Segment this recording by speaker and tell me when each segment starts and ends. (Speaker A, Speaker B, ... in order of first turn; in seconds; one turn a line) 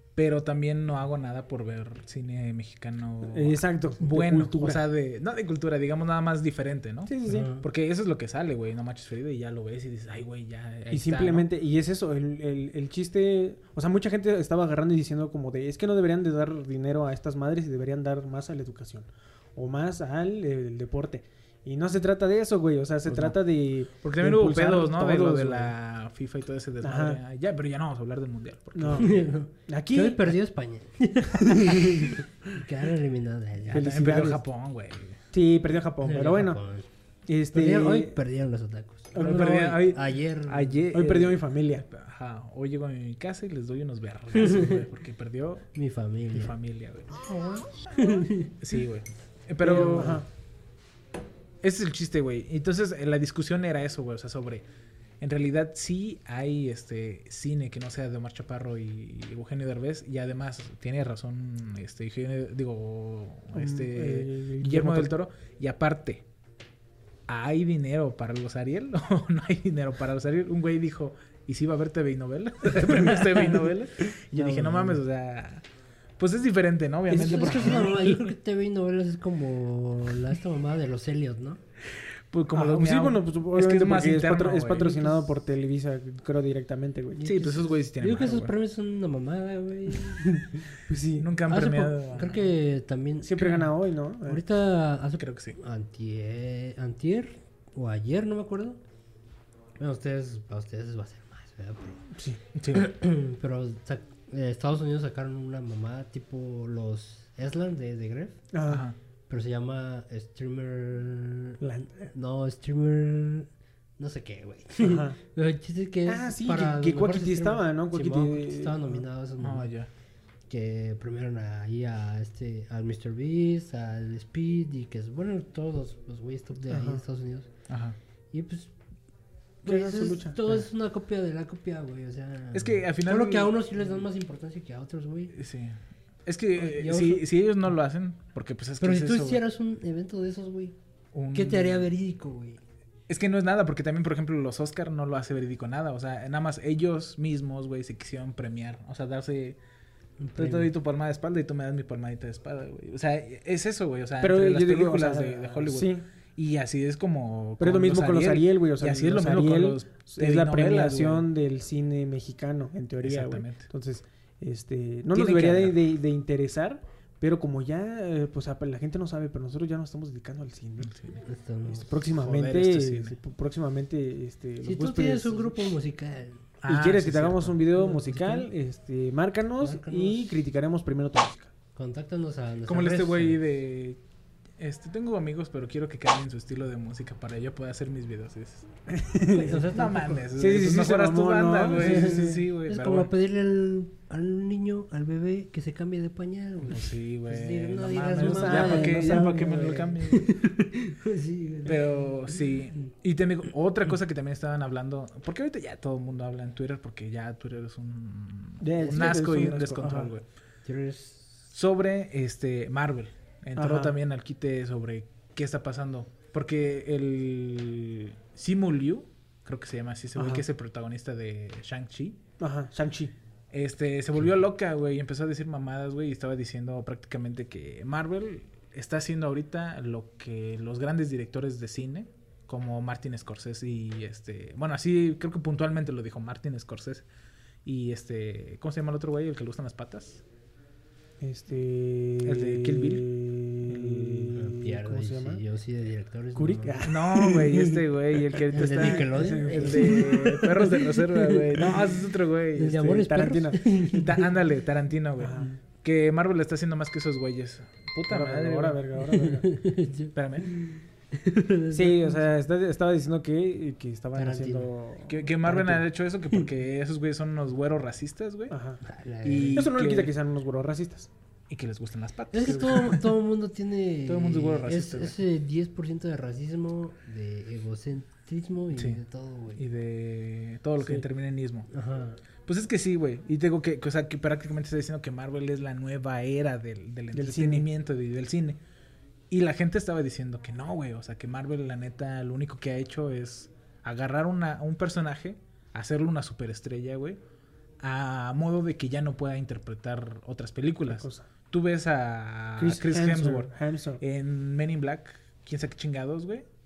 Speaker A: 0.1-11.5
Speaker B: 3.3-4.8
Speaker B: 7.1-7.5
Speaker C: 7.2-7.6
Speaker B: 10.9-25.7
Speaker A: 23.1-23.4
Speaker A: 24.0-29.2
Speaker B: 26.8-27.2
Speaker B: 28.8-29.1
Speaker C: 29.0-33.8
Speaker B: 29.7-30.3
Speaker B: 31.4-32.2
Speaker A: 33.6-35.2
Speaker B: 33.7-34.4
Speaker B: 35.3-36.6
Speaker C: 36.0-36.9
Speaker B: 37.3-38.2
Speaker C: 37.5-40.8
Speaker B: 39.1-39.9
Speaker A: 39.1-45.7
Speaker B: 40.9-41.9
Speaker C: 44.4-44.8
Speaker C: 45.7-46.5
Speaker A: 46.3-47.2
Speaker C: 47.2-48.5
Speaker A: 48.6-50.2
Speaker B: 49.6-50.2
Speaker C: 49.7-50.1
Speaker A: 51.6-54.6
Speaker A: 55.2-66.2
Speaker B: 63.5-65.1
Speaker A: 67.3-75.6
Speaker C: 74.3-75.0
Speaker A: 76.2-78.2
Speaker C: 77.1-81.6
Speaker B: 77.1-78.0
Speaker A: 82.3-85.0
Speaker B: 82.5-87.3
Speaker C: 84.9-85.2
Speaker C: 87.2-90.5
Speaker A: 87.2-88.5
Speaker B: 90.9-91.3
Speaker A: 91.2-92.5
Speaker C: 91.5-93.5
Speaker B: 93.2-94.4
Speaker C: 94.3-98.8
Speaker A: 95.2-95.6
Speaker C: 99.8-102.0
Speaker B: 102.1-102.4
Speaker A: 102.5-102.9
Speaker C: 102.7-108.4
Speaker B: 108.5-108.8
Speaker A: 108.7-109.0
Speaker C: 109.3-111.6
Speaker B: 111.6-112.1
Speaker C: 112.1-119.7
Speaker B: 114.8-115.2
Speaker B: 116.0-119.0
Speaker A: 119.4-119.9
Speaker C: 120.5-127.5
Speaker B: 126.7-127.0
Speaker A: 127.7-128.0
Speaker C: 128.3-128.7
Speaker C: 129.6-135.3
Speaker B: 129.7-130.6
Speaker A: 132.5-133.6
Speaker A: 135.3-139.4
Speaker C: 136.5-137.3
Speaker C: 138.8-140.8
Speaker A: 141.1-141.9
Speaker C: 141.3-142.6
Speaker A: 143.1-149.6
Speaker C: 150.2-150.7
Speaker A: 150.4-161.3
Speaker B: 154.2-156.1
Speaker B: 157.6-170.9
Speaker A: 163.0-163.7
Speaker A: 165.1-165.8
Speaker A: 170.8-171.2
Speaker C: 171.2-171.9
Speaker B: 171.7-175.7
Speaker A: 171.9-173.2
Speaker C: 174.6-176.5
Speaker A: 176.6-177.6
Speaker B: 176.7-181.5
Speaker C: 177.7-178.5
Speaker C: 179.6-180.4
Speaker C: 181.7-183.4
Speaker A: 182.7-184.0
Speaker A: 184.6-188.7
Speaker B: 188.9-189.6
Speaker C: 189.3-190.2
Speaker A: 189.5-193.1
Speaker B: 190.3-192.4
Speaker C: 191.7-202.1
Speaker A: 196.7-200.4
Speaker B: 198.2-199.8
Speaker A: 201.6-210.2
Speaker B: 208.6-210.1
Speaker C: 210.6-211.4
Speaker A: 211.5-222.2
Speaker B: 213.6-213.9
Speaker B: 220.2-220.4
Speaker B: 222.4-223.1
Speaker A: 223.5-237.1
Speaker A: 237.6-240.2
Speaker B: 241.2-245.4
Speaker A: 242.2-243.0
Speaker A: 243.6-244.3
Speaker C: 244.3-246.8
Speaker B: 246.3-250.2
Speaker A: 246.8-253.0
Speaker C: 248.5-251.9
Speaker C: 252.6-254.1
Speaker B: 252.7-253.8
Speaker A: 253.9-258.8
Speaker B: 255.2-255.6
Speaker B: 258.1-259.5
Speaker C: 259.1-262.2
Speaker A: 260.1-260.5
Speaker B: 261.7-265.8
Speaker C: 264.1-264.7
Speaker A: 265.1-268.6
Speaker B: 268.5-268.8
Speaker C: 268.8-269.6
Speaker A: 269.2-270.1
Speaker B: 269.5-271.1
Speaker A: 271.5-273.1
Speaker C: 272.3-279.6
Speaker A: 274.1-275.2
Speaker A: 278.7-279.0
Speaker A: 279.6-281.7
Speaker C: 281.7-282.2
Speaker A: 282.4-288.6
Speaker B: 287.1-287.7
Speaker A: 289.3-297.2
Speaker A: 297.8-306.4
Speaker B: 300.9-301.3
Speaker B: 302.6-304.0